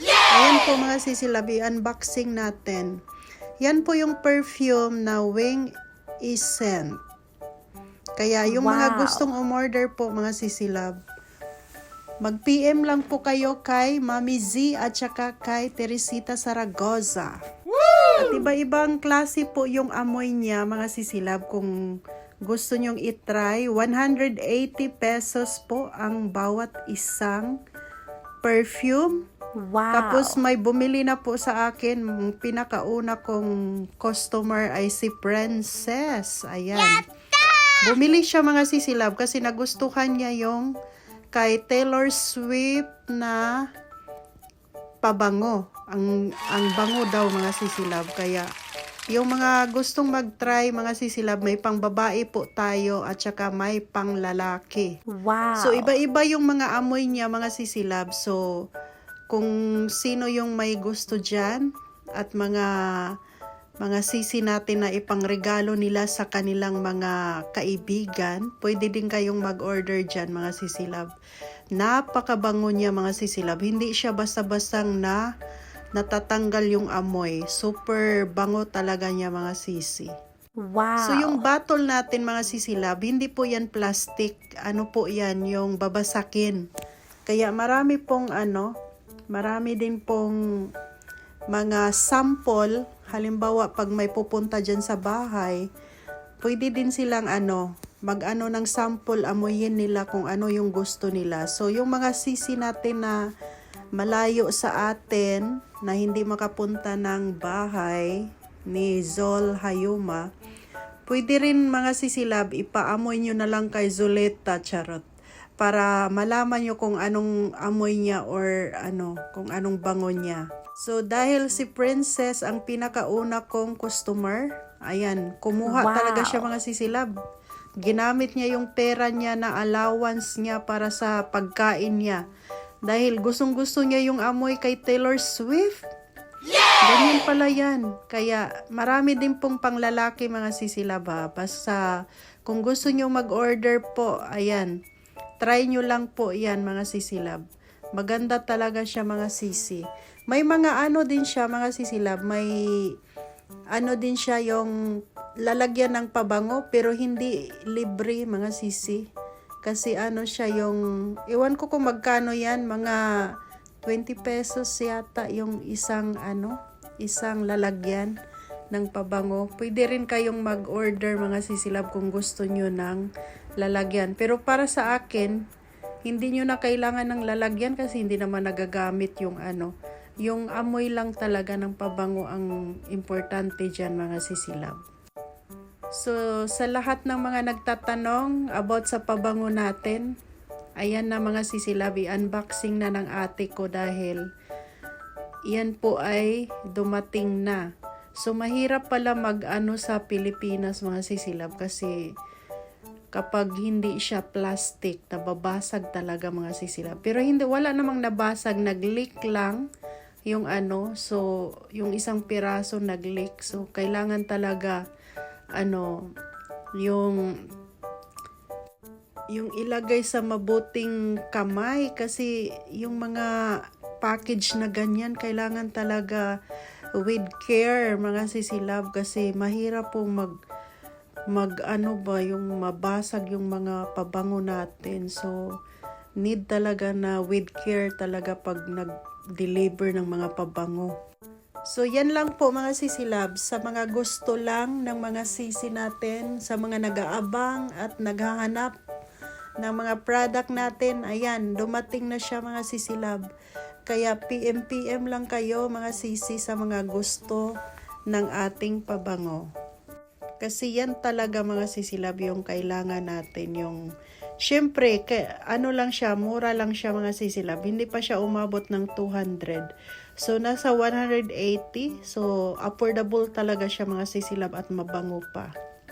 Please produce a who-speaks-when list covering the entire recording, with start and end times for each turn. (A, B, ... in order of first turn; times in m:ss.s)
0:00.3-0:02.9 A
0:03.6-0:05.7 A
0:06.3-0:07.0 A
0:08.2-0:11.0 A
0:08.4-0:09.3 B
0:12.2-0:17.4 A
0:18.1-0:21.7 A
0:22.5-0:27.5 A
0:28.4-0:29.2 A
0:29.6-0:30.4 B
0:29.9-0:37.0 A
0:37.8-0:40.7 A
0:41.3-0:43.4 A
0:45.0-0:48.5 A
0:49.1-0:54.9 A
0:55.1-0:55.9 B
0:55.6-0:58.4 A
0:59.3-1:02.7 A
1:03.8-1:11.1 A
1:11.7-1:15.2 A
1:15.9-1:20.1 A
1:20.6-1:21.4 B
1:21.0-1:26.6 A
1:27.3-1:28.7 A
1:29.3-1:30.4 A
1:31.5-1:35.6 A
1:36.4-1:43.2 A
1:44.0-1:48.1 A
1:48.7-1:50.2 A
1:51.1-1:55.0 A
1:55.6-2:07.1 A
2:05.6-2:06.4 B
2:07.8-2:12.2 A
2:12.9-2:15.8 A
2:16.8-2:21.8 A
2:22.5-2:24.7 A
2:25.4-2:27.4 A
2:28.0-2:32.5 A
2:33.7-2:34.7 A
2:35.4-2:39.0 A
2:39.6-2:43.0 A
2:43.8-2:48.1 A
2:48.7-2:53.0 A
2:53.6-2:55.4 A
2:56.1-2:59.7 A
3:00.2-3:04.8 A
3:06.0-3:10.1 A
3:10.8-3:14.2 A
3:15.5-3:17.6 A
3:18.2-3:22.0 A
3:23.1-3:29.6 A
3:30.3-3:31.2 A
3:31.7-3:34.8 A
3:35.6-3:35.9 A
3:36.8-3:37.2 A
3:39.3-3:43.3 A
3:44.0-3:46.2 A
3:47.0-3:50.3 A
3:51.3-3:55.4 A
3:56.2-4:00.9 A
4:01.7-4:08.7 A
4:09.6-4:13.3 A
4:13.9-4:17.5 A
4:18.1-4:19.4 A
4:20.4-4:23.8 A
4:24.4-4:29.7 A
4:30.2-4:35.5 A